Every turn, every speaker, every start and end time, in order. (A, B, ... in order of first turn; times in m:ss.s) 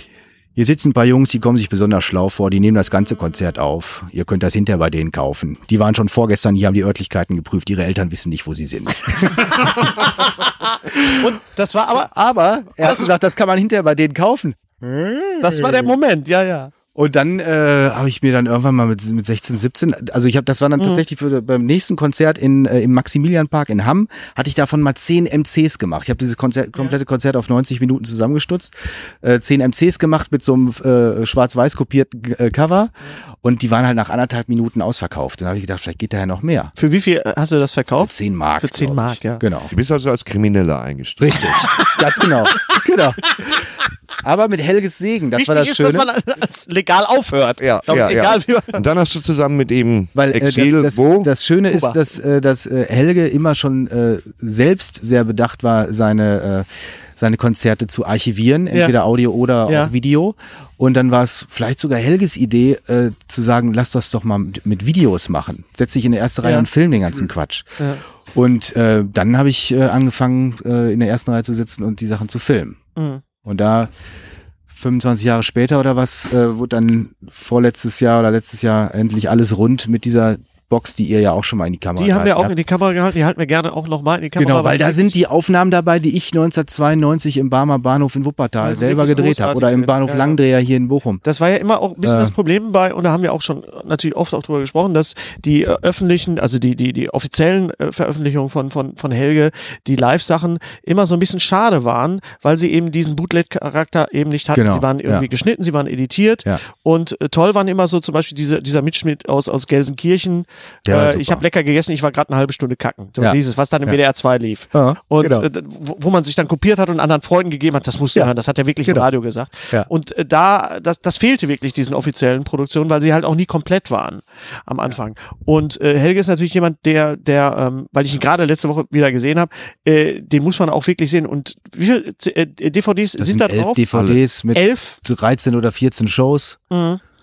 0:00.6-0:09.9 A
0:11.0-0:12.1 B
0:11.9-0:15.9 A
0:15.4-0:16.7 B
0:16.9-0:36.7 A
0:20.8-0:21.0 B
0:36.8-0:39.4 B
0:38.0-0:39.7 A
0:39.7-0:41.7 C
0:41.2-0:43.5 A
0:41.7-0:42.0 B
0:44.2-0:46.1 A
0:45.3-0:48.8 B
0:47.6-0:51.3 C
0:50.1-1:07.8 A
0:51.7-0:52.0 B
0:59.7-0:59.9 B
1:08.3-1:12.8 A
1:13.0-1:13.2 B
1:13.4-1:13.9 A
1:14.7-1:22.5 A
1:22.0-1:25.2 B
1:24.4-1:31.2 A
1:28.6-1:30.4 B
1:31.2-2:15.0 B
1:32.0-1:32.3 A
1:44.5-1:45.3 A
1:50.8-1:51.4 A
1:53.2-1:54.0 A
1:54.7-1:55.5 A
2:13.2-2:16.6 A
2:16.7-2:17.0 B